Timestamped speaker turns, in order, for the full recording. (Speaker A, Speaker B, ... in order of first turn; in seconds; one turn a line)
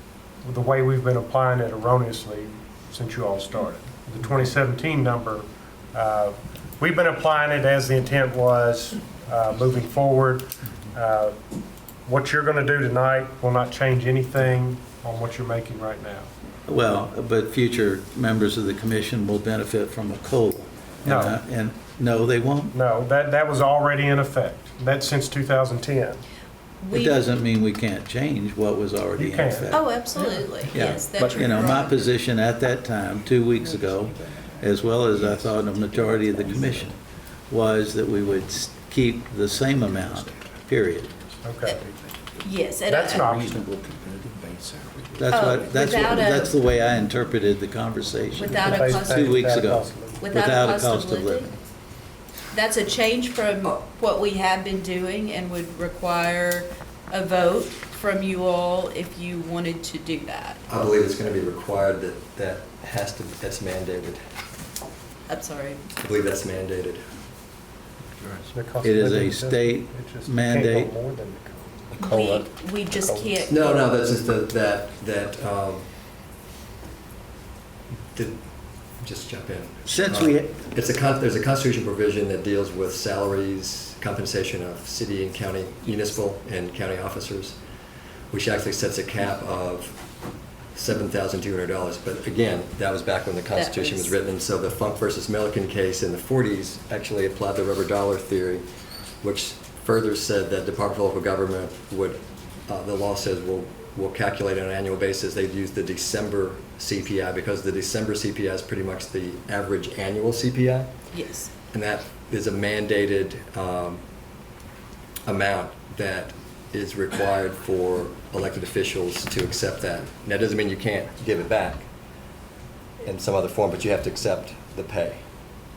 Speaker A: 0.4-11.4
Speaker A: 12.1-16.3
Speaker B: 16.7-22.7
Speaker A: 21.1-21.3
Speaker A: 22.7-26.2
Speaker C: 26.8-27.2
Speaker B: 26.9-30.0
Speaker A: 29.2-30.4
Speaker C: 29.7-32.1
Speaker B: 30.7-37.0
Speaker D: 35.2-36.9
Speaker B: 37.5-41.1
Speaker D: 39.9-40.2
Speaker A: 41.4-41.9
Speaker C: 42.4-43.4
Speaker A: 42.9-43.7
Speaker D: 43.1-45.6
Speaker B: 45.1-51.5
Speaker C: 45.3-46.7
Speaker C: 48.3-49.6
Speaker A: 48.6-50.2
Speaker C: 50.2-51.5
Speaker C: 52.5-60.6
Speaker E: 60.7-64.2
Speaker C: 65.3-65.8
Speaker E: 66.0-67.0
Speaker A: 68.5-73.3
Speaker B: 68.8-70.9
Speaker C: 72.0-73.9
Speaker E: 73.4-75.8
Speaker E: 78.1-78.4
Speaker E: 79.0-87.6
Speaker B: 79.9-80.6
Speaker E: 88.3-90.0
Speaker E: 90.7-98.6
Speaker C: 93.5-94.2
Speaker E: 99.2-110.9
Speaker C: 111.1-111.5
Speaker E: 111.7-114.0
Speaker E: 115.2-121.9
Speaker E: 123.0-125.2